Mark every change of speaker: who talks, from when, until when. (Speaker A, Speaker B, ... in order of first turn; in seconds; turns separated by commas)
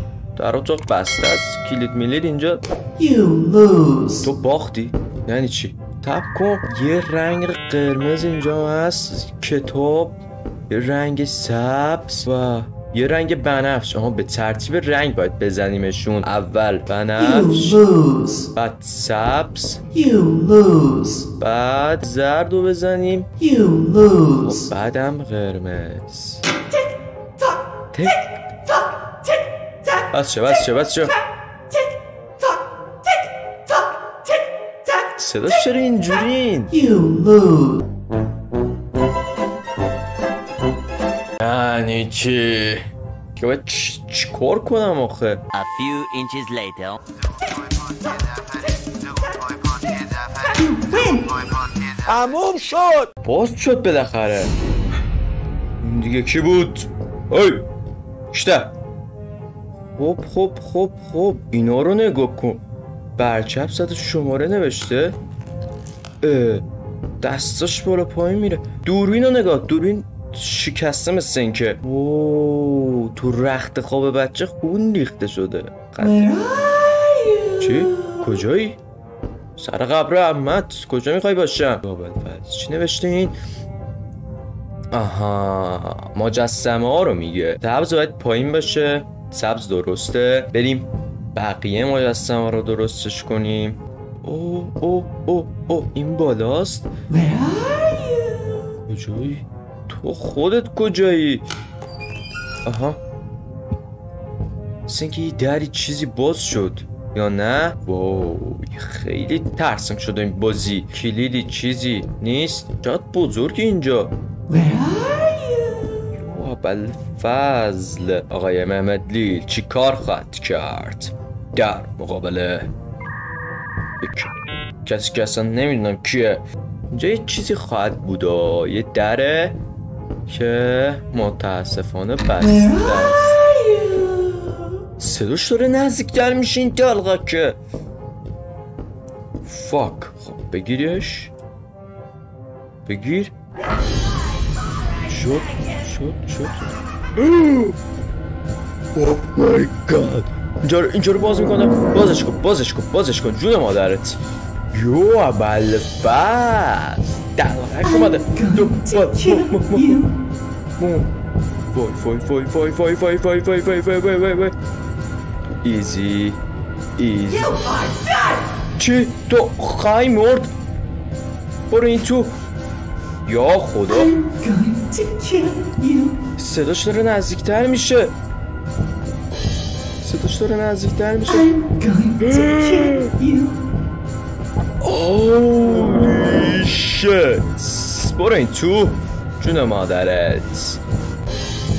Speaker A: 0.4-2.6, Speaker B: 3.0-4.3, Speaker A: 4.2-17.8, Speaker B: 17.2-18.5, Speaker A: 18.5-19.8, Speaker B: 19.9-21.3, Speaker A: 21.4-23.3, Speaker B: 23.4-24.7, Speaker A: 24.4-26.4, Speaker A: 27.9-28.5, Speaker A: 30.1-31.2, Speaker A: 35.2-36.8, Speaker B: 36.7-37.8, Speaker A: 41.4-42.9, Speaker A: 43.4-45.4, Speaker C: 45.5-47.0, Speaker C: 49.3-50.1, Speaker C: 52.1-52.9, Speaker A: 53.2-54.5, Speaker A: 55.8-57.7, Speaker A: 58.3-58.7, Speaker A: 60.0-62.6, Speaker A: 63.2-65.2, Speaker A: 66.2-66.7, Speaker A: 67.2-76.5, Speaker B: 76.3-77.4, Speaker A: 77.5-78.8, Speaker A: 79.6-83.3, Speaker A: 84.9-96.9, Speaker B: 97.1-98.5, Speaker A: 98.8-101.5, Speaker A: 102.7-103.0, Speaker A: 104.9-114.1, Speaker B: 114.5-116.0, Speaker A: 116.1-122.7, Speaker A: 124.0-129.6, Speaker A: 130.3-133.6, Speaker A: 135.0-137.6, Speaker A: 139.4-141.3, Speaker A: 142.9-143.3, Speaker A: 145.0-147.8, Speaker A: 149.0-154.2, Speaker A: 154.7-160.1, Speaker A: 160.8-161.1, Speaker A: 161.7-164.6, Speaker A: 165.6-166.4, Speaker A: 167.0-167.9, Speaker A: 168.8-170.5, Speaker A: 171.7-172.4, Speaker A: 173.2-174.2, Speaker A: 176.4-178.2, Speaker A: 180.0-181.6, Speaker A: 182.2-183.2, Speaker A: 184.8-190.8